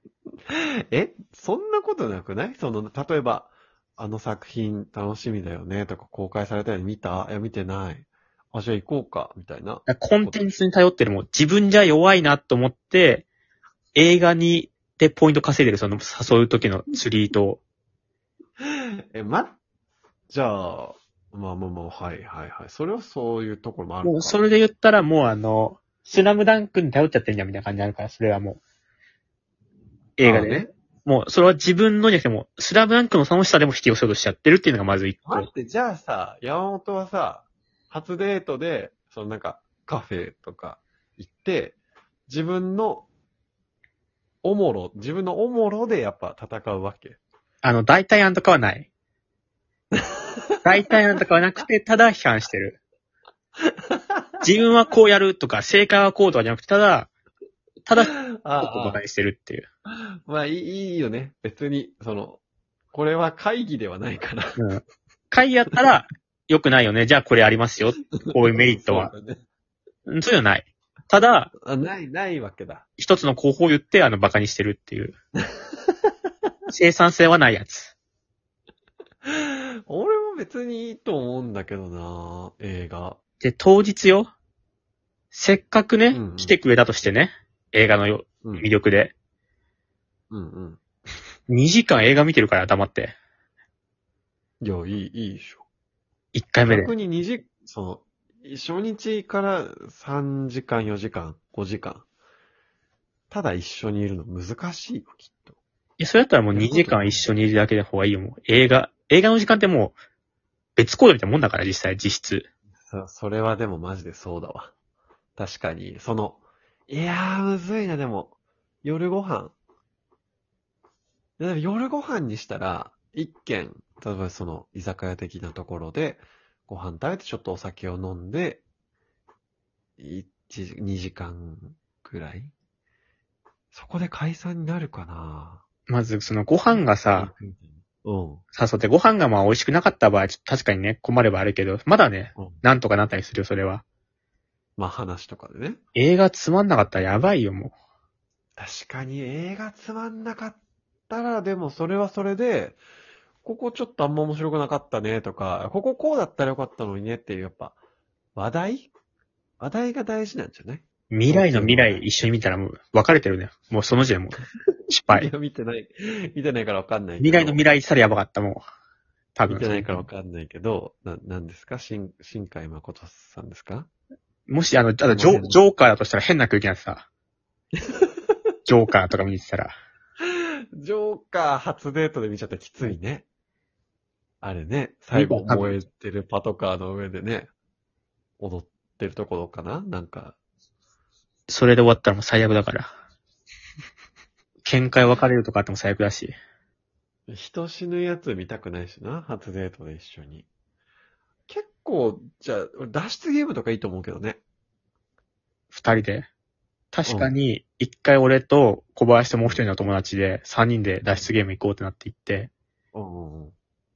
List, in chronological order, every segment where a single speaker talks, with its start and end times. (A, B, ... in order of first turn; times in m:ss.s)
0:00.5-0:10.5 A
0:09.9-0:13.3 B
0:14.0-0:17.6 B
0:18.6-0:19.6 A
0:20.3-0:24.4 A
0:24.0-0:28.6 B
0:30.2-0:35.5 B
0:30.2-0:30.7 A
0:35.2-0:41.8 A
0:42.3-0:43.1 A
0:44.4-0:47.2 A
0:47.6-0:48.9 B
0:50.6-0:50.9 A
0:50.6-0:52.8 B
0:53.7-0:54.5 A
0:54.4-0:57.1 B
0:57.8-0:59.7 B
0:58.1-0:59.0 A
1:00.3-1:04.5 A
1:04.6-1:09.1 B
1:08.2-1:09.4 A
1:10.1-1:11.5 B
1:11.6-1:12.9 A
1:13.0-1:15.2 B
1:15.5-1:16.1 A
1:16.7-1:17.9 B
1:19.2-1:23.2 A
1:23.4-1:24.3 B
1:25.3-1:29.1 B
1:26.1-1:26.6 A
1:28.4-1:28.7 A
1:30.3-1:30.8 A
1:31.5-1:33.2 B
1:34.6-1:35.6 A
1:36.3-1:36.9 B
1:36.6-1:42.0 A
1:43.3-1:45.6 A
1:46.0-1:50.0 B
1:46.5-1:47.3 A
1:50.8-1:52.5 B
1:52.9-1:54.7 A
1:55.4-1:59.6 A
2:01.4-2:08.6 A
2:10.0-2:12.5 A
2:13.7-2:15.6 A
2:15.9-2:17.3 B
2:16.7-2:18.4 A
2:18.5-2:23.8 B
2:22.4-2:22.6 A
2:24.8-2:25.8 A
2:26.0-2:27.7 B
2:28.6-2:32.8 A
2:33.4-2:37.8 A
2:38.4-2:38.9 A
2:39.6-2:42.0 A
2:41.1-2:44.4 B
2:44.9-2:45.3 B
2:45.1-2:47.6 A
2:47.2-2:48.6 B
2:49.4-2:50.1 B
2:49.5-2:53.9 A
2:54.5-2:57.0 B
2:55.1-2:55.6 A
2:57.8-2:58.4 A
2:58.7-2:59.7 B
3:00.2-3:03.2 A
3:04.4-3:07.5 A
3:05.1-3:05.8 B
3:08.4-3:10.4 A
3:11.5-3:12.9 B
3:14.6-3:16.3 B
3:17.3-3:20.5 A
3:21.5-3:24.4 A
3:25.7-3:26.3 B
3:26.9-3:32.5 B
3:27.1-3:27.3 A
3:29.4-3:29.7 A
3:32.9-3:33.6 A